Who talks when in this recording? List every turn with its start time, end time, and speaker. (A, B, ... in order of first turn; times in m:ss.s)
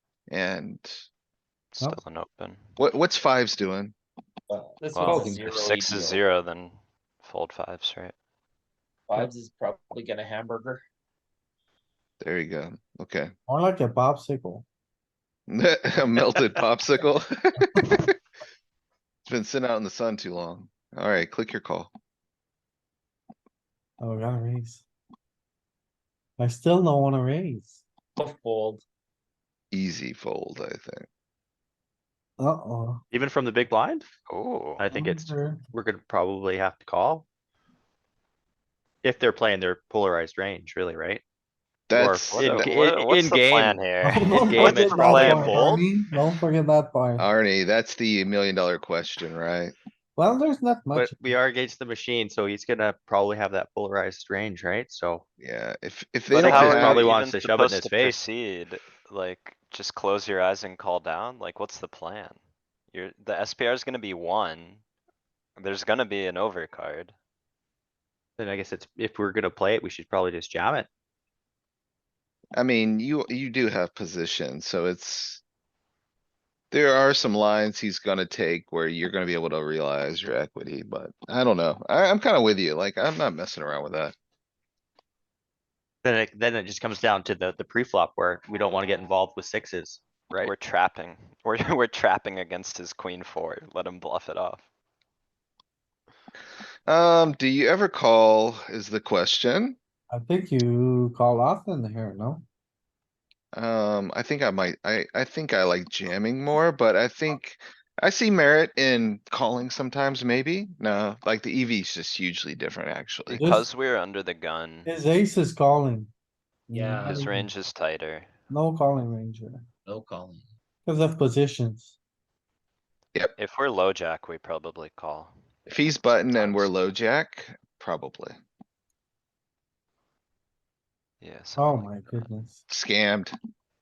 0:00.3-0:01.0 A
0:01.7-0:02.6 B
0:02.8-0:03.9 A
0:04.5-0:06.2 C
0:04.9-0:08.1 B
0:09.1-0:10.8 C
0:12.2-0:13.3 A
0:13.5-0:14.6 D
0:15.5-0:17.9 A
0:19.3-0:21.9 A
0:24.0-0:24.8 D
0:26.4-0:27.8 D
0:28.2-0:28.8 C
0:29.7-0:31.1 A
0:32.4-0:33.0 D
0:33.1-0:34.1 E
0:34.3-0:34.8 B
0:34.8-0:37.2 E
0:34.9-0:35.6 D
0:39.0-0:41.2 E
0:41.9-0:42.7 A
0:41.9-0:45.8 E
0:42.3-0:45.8 B
0:44.0-0:47.3 D
0:47.2-0:49.7 A
0:50.2-0:51.1 D
0:50.9-0:55.2 E
0:55.4-0:57.1 A
0:56.3-0:58.2 E
0:56.3-1:02.4 B
1:02.9-1:04.8 B
1:05.6-1:07.1 B
1:08.4-1:10.9 E
1:12.5-1:15.4 A
1:16.7-1:24.1 A
1:26.0-1:30.5 E
1:30.4-1:34.6 B
1:36.9-1:39.8 A
1:40.1-1:42.4 D
1:43.5-1:53.4 A
1:53.3-1:54.9 B
1:53.3-1:53.6 D
1:54.8-1:56.1 D
1:56.7-1:57.4 D
1:56.7-1:57.2 C
1:57.0-1:58.3 B
1:58.5-1:59.6 D
1:59.8-2:00.5 C
2:00.8-2:02.0 D
2:03.4-2:05.3 B
2:05.7-2:08.4 A
2:06.3-2:06.7 B
2:11.2-2:12.3 B
2:11.6-2:12.6 D
2:12.7-2:13.3 A